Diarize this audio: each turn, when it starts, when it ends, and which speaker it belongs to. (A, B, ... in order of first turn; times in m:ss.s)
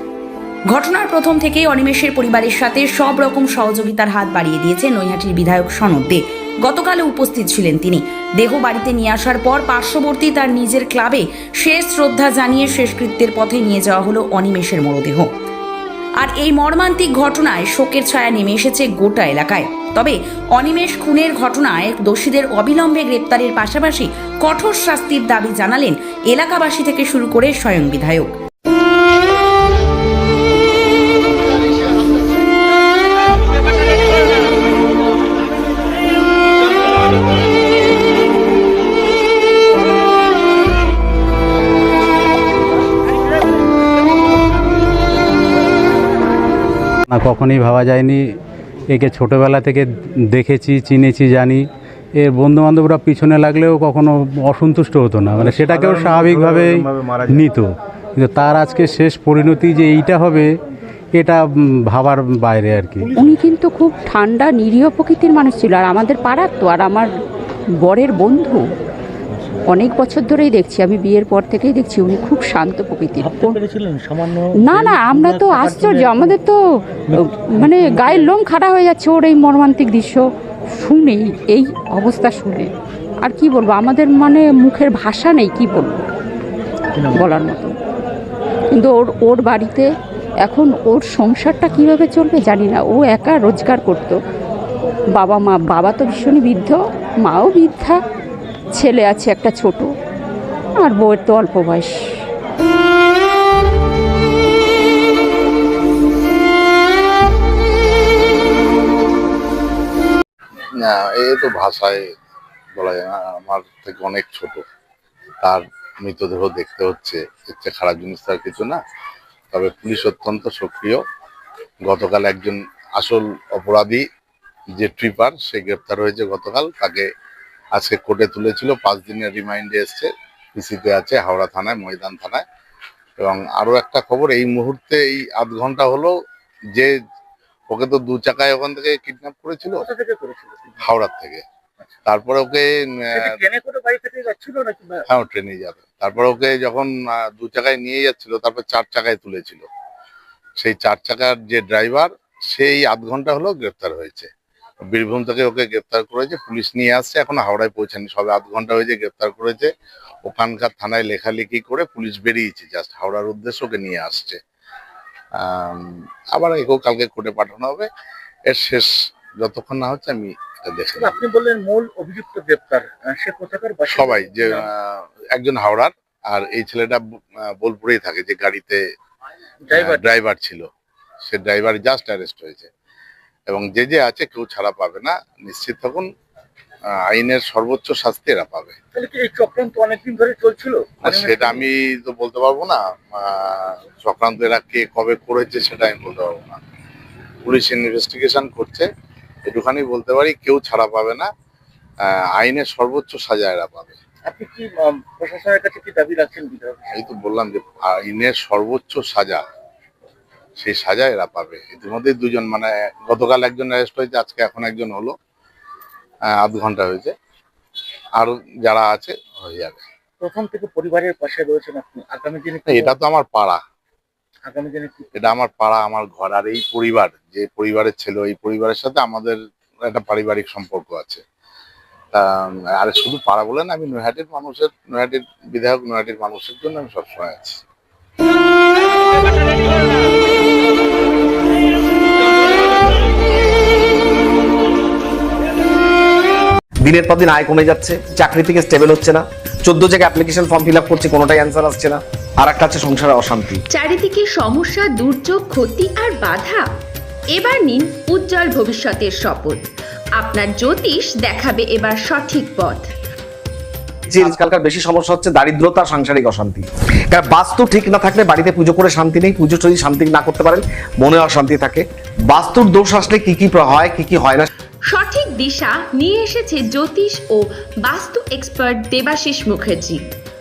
0:00.7-0:15.3 A
0:16.2-0:28.3 A
0:47.1-0:48.2 B
0:48.9-0:51.6 B
0:52.2-1:00.5 B
1:01.2-1:03.1 B
1:03.2-1:07.1 C
1:07.8-1:08.6 C
1:09.7-1:13.6 C
1:13.2-1:16.4 D
1:14.7-1:16.5 C
1:17.6-1:20.2 C
1:17.6-1:18.2 D
1:20.8-1:22.7 C
1:23.2-1:26.0 C
1:27.1-1:27.7 C
1:28.7-1:29.8 C
1:30.4-1:34.1 C
1:35.2-1:38.0 C
1:38.7-1:39.8 C
1:40.8-1:41.9 C
1:50.8-1:52.0 E
1:52.8-1:54.6 E
1:55.4-1:58.8 E
1:59.5-2:01.0 E
2:01.9-2:04.0 E
2:04.8-2:07.1 E
2:07.7-2:12.4 E
2:13.2-2:16.1 E
2:17.7-2:19.8 E
2:19.8-2:20.8 D
2:20.8-2:21.4 E
2:22.0-2:23.3 E
2:23.1-2:25.0 D
2:25.1-2:29.6 E
2:30.6-2:34.3 E
2:34.9-2:39.7 E
2:40.2-2:44.4 E
2:45.4-2:47.9 E
2:48.5-2:48.9 E
2:49.4-2:51.2 E
2:51.0-2:54.6 D
2:53.9-2:58.8 E
2:59.6-3:00.0 D
2:59.7-3:00.6 E
3:01.3-3:02.7 E
3:03.5-3:06.1 E
3:07.1-3:08.7 E
3:08.9-3:11.6 D
3:11.0-3:16.6 E
3:17.4-3:18.9 E
3:19.5-3:21.3 E
3:22.1-3:24.0 E
3:24.2-3:26.9 D
3:27.0-3:29.4 E
3:30.6-3:35.1 E
3:36.4-3:37.1 E
3:38.2-3:39.8 E
3:40.2-3:42.9 D
3:42.7-3:43.6 E
3:44.4-3:45.1 D
3:45.2-3:51.2 E
3:52.1-3:57.6 E
4:06.8-4:13.6 F
4:13.7-4:16.6 G
4:17.3-4:19.6 G
4:20.2-4:22.9 G
4:24.1-4:34.5 F
4:34.9-4:40.0 G